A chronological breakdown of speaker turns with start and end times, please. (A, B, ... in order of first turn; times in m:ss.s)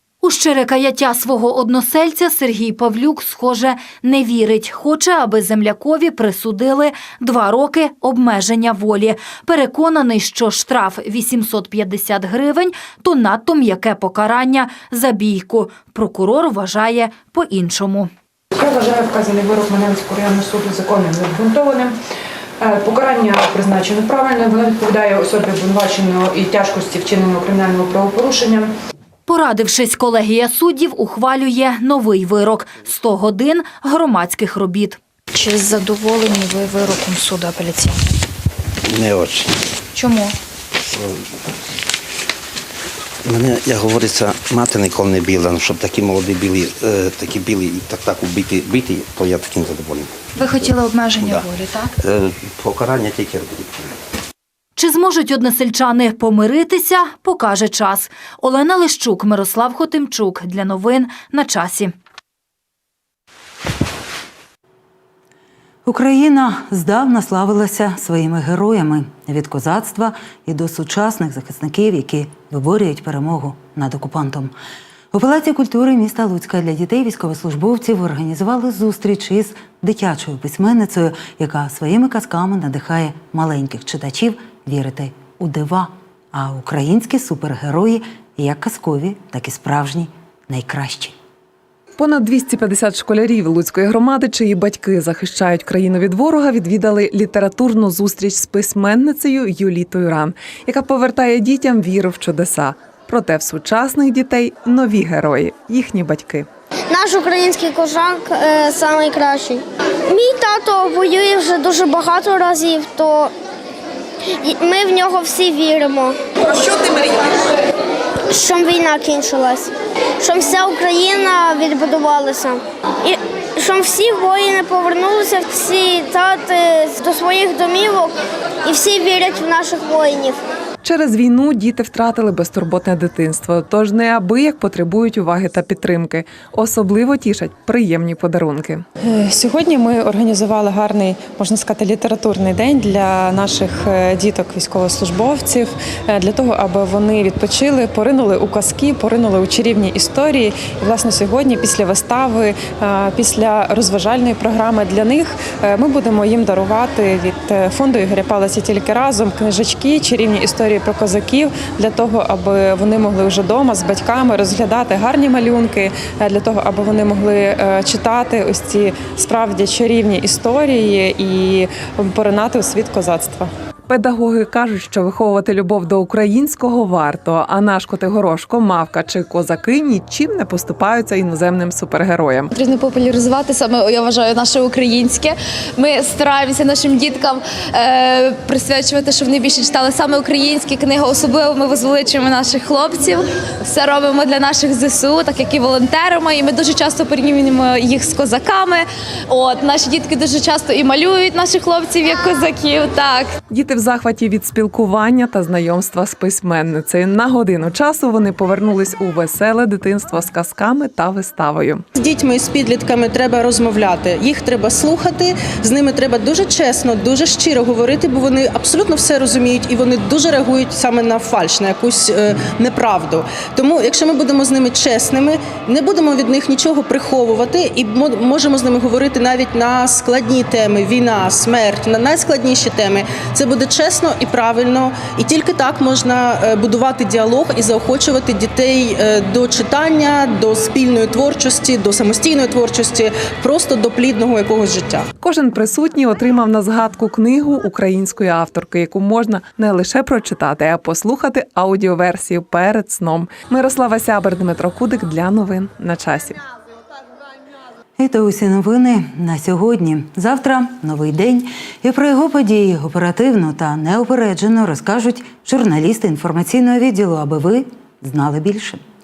0:00.2-0:18.1 A
0:19.0-0:21.9 B
0:22.9-0:28.6 B
0:29.2-0:35.0 A
0:35.3-0:38.0 C
0:38.9-0:39.6 D
0:39.9-0:40.4 C
0:40.9-0:41.2 D
0:43.2-0:50.1 D
0:50.4-0:51.9 C
0:51.2-0:51.5 D
0:52.0-0:54.0 D
0:54.8-1:01.9 A
1:05.8-1:14.5 E
1:15.1-1:31.1 E
1:32.0-1:46.5 F
1:46.9-1:53.3 G
1:54.4-1:56.2 G
1:58.3-2:10.4 G
2:10.8-2:18.8 F
2:19.0-2:53.5 H
2:53.9-3:02.4 F
3:02.5-3:23.3 I
3:23.5-3:31.8 F
3:31.9-4:05.1 J
4:05.2-4:16.4 F
4:18.0-4:28.8 E